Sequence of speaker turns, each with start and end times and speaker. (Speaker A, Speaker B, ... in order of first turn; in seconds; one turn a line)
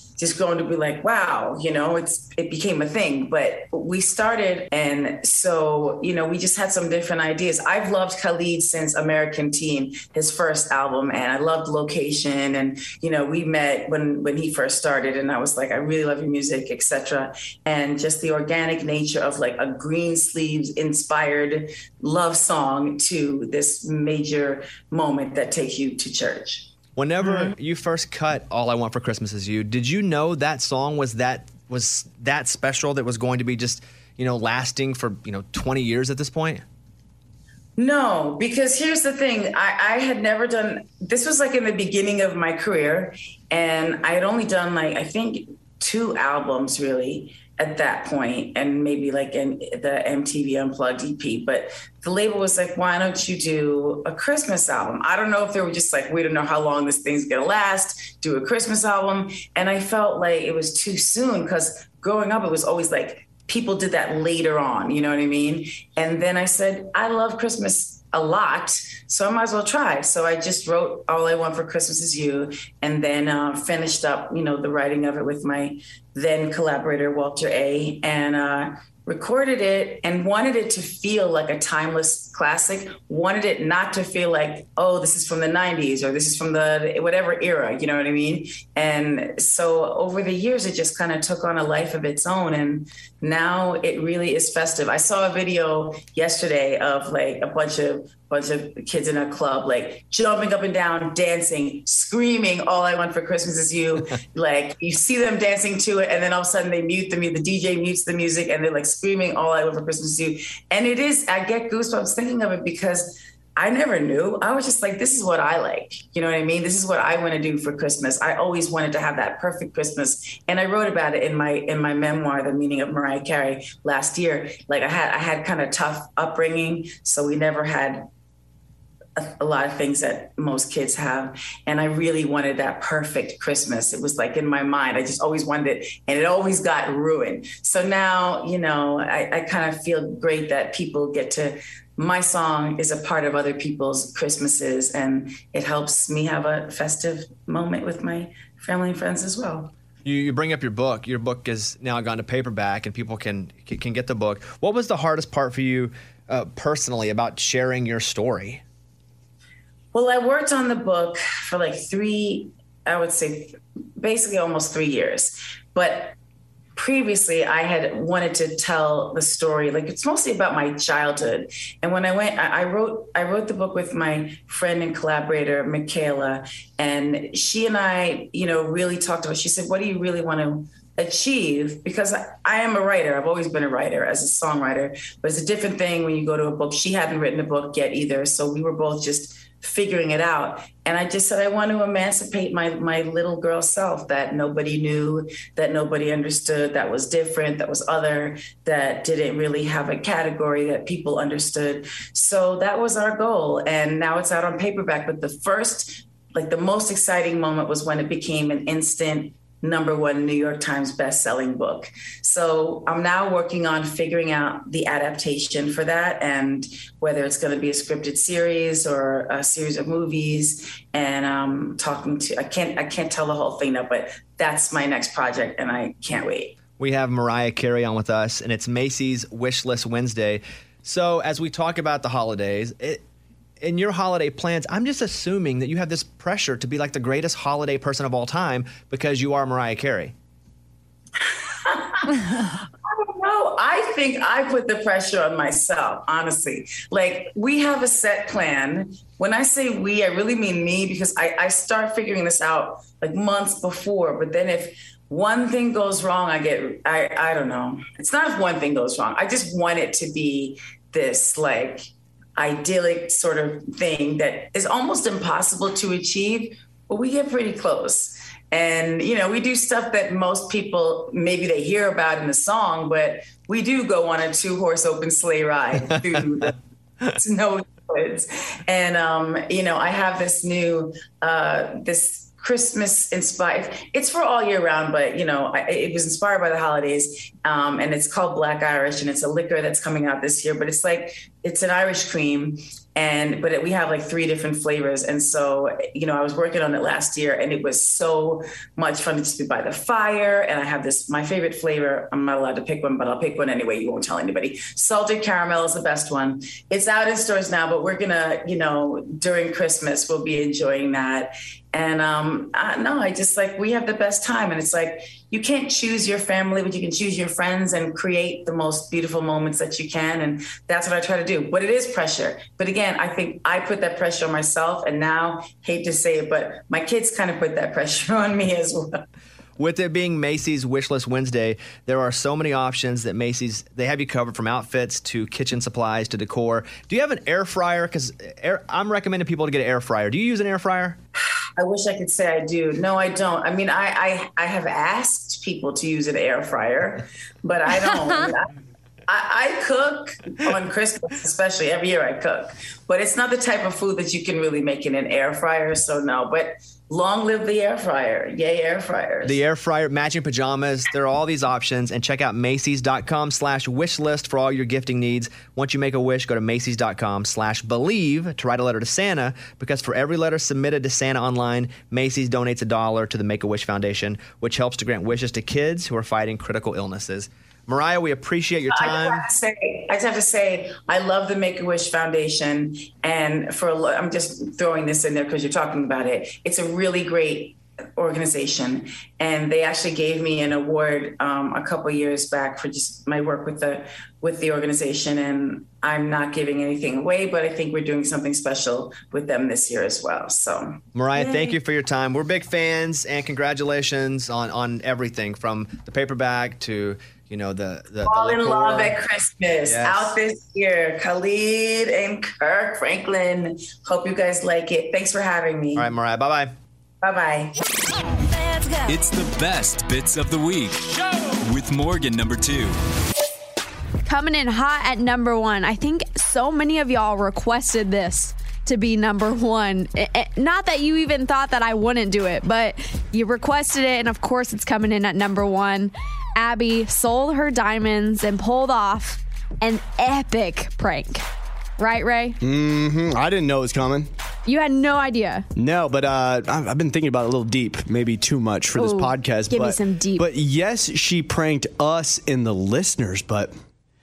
Speaker A: 0.2-26.7
Speaker B: 26.9-36.6
Speaker A: 37.8-128.1
Speaker A: 129.2-149.7
Speaker B: 150.1-158.6
Speaker A: 159.9-166.1
Speaker A: 166.8-226.6
Speaker B: 226.8-233.0
Speaker B: 233.6-240.1
Speaker A: 241.6-276.6
Speaker A: 277.1-329.0
Speaker B: 329.6-341.0
Speaker A: 341.6-348.5
Speaker A: 349.1-359.4
Speaker B: 359.2-379.3
Speaker A: 378.7-401.5
Speaker B: 400.9-409.0
Speaker A: 408.0-415.9
Speaker B: 409.6-410.1
Speaker B: 415.8-416.5
Speaker A: 417.0-417.6
Speaker C: 418.9-422.8
Speaker D: 424.1-441.2
Speaker D: 441.8-442.4
Speaker E: 442.4-444.1
Speaker D: 444.4-445.4
Speaker E: 445.6-453.5
Speaker D: 448.7-450.3